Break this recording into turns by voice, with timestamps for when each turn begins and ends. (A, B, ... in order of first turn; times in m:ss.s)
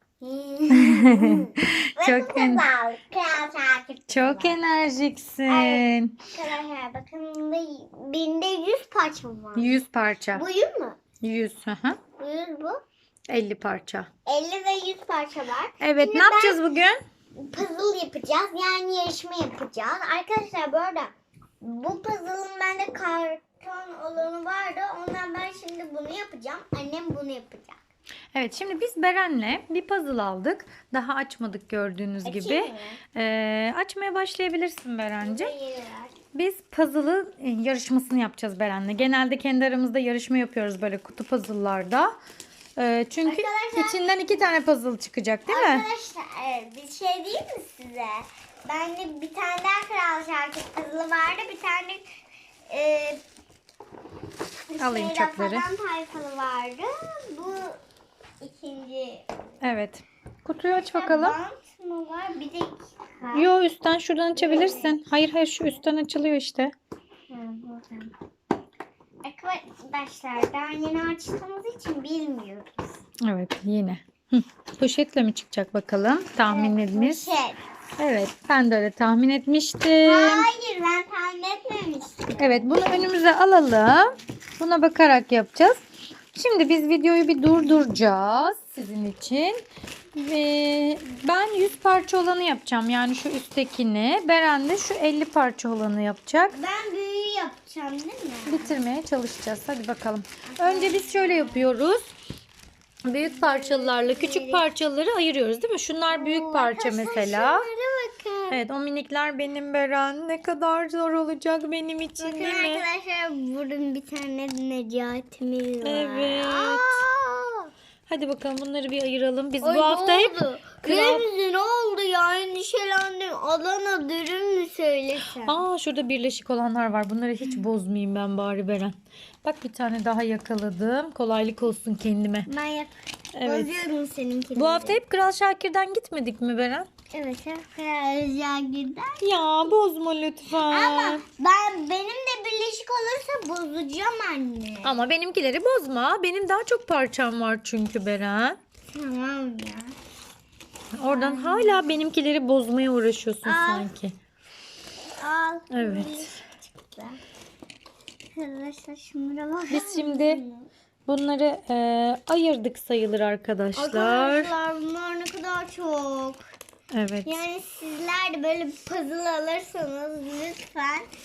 0:00.2-0:04.6 A
0:00.7-0:02.7 B
0:04.1-0:06.2 B
0:05.5-0:09.7 A
0:09.5-0:10.4 B
0:10.3-0:11.0 A
0:11.2-0:12.0 B
0:12.2-0:12.8 A
0:13.3-0:14.1 B
0:14.2-0:16.6 A
0:15.8-0:17.0 B
0:17.4-0:27.8 A
0:28.3-0:35.5 B
0:32.2-0:33.0 A
0:35.2-0:36.1 A
0:36.3-0:42.1 B
0:42.8-0:45.9 B
0:43.2-0:44.5 A
0:45.5-0:52.1 A
0:52.7-0:53.2 A
0:54.7-0:57.8 A
0:54.8-0:55.7 B
0:58.4-0:59.2 A
0:59.6-1:01.4 B
1:00.9-1:03.5 A
1:03.3-1:06.7 B
1:04.3-1:05.0 A
1:07.3-1:08.1 A
1:09.2-1:12.9 A
1:13.2-1:17.3 B
1:16.4-1:17.6 A
1:18.0-1:20.5 B
1:20.0-1:22.8 A
1:22.4-1:25.8 B
1:26.3-1:29.6 B
1:30.2-1:36.6 B
1:36.5-1:38.8 A
1:38.5-1:42.1 B
1:40.5-1:41.7 A
1:43.0-1:47.6 B
1:43.2-1:44.7 A
1:46.1-1:48.6 A
1:48.5-1:52.8 B
1:52.2-1:57.7 A
1:55.8-1:57.0 B
1:58.1-2:01.2 B
1:59.6-2:05.6 A
2:05.3-2:12.5 B
2:12.4-2:15.0 A
2:13.3-2:13.8 B
2:14.6-2:16.9 B
2:17.1-2:19.2 A
2:19.2-2:21.2 B
2:20.6-2:24.9 A
2:24.8-2:28.6 B
2:28.9-2:29.9 A
2:31.0-2:34.1 B
2:31.1-2:31.8 A
2:33.4-2:33.9 A
2:35.2-2:37.2 A
2:35.7-2:36.4 B
2:38.3-2:40.7 A
2:39.7-2:40.4 B
2:41.1-2:44.5 B
2:43.8-2:46.4 A
2:46.9-2:47.4 B
2:47.2-2:51.1 A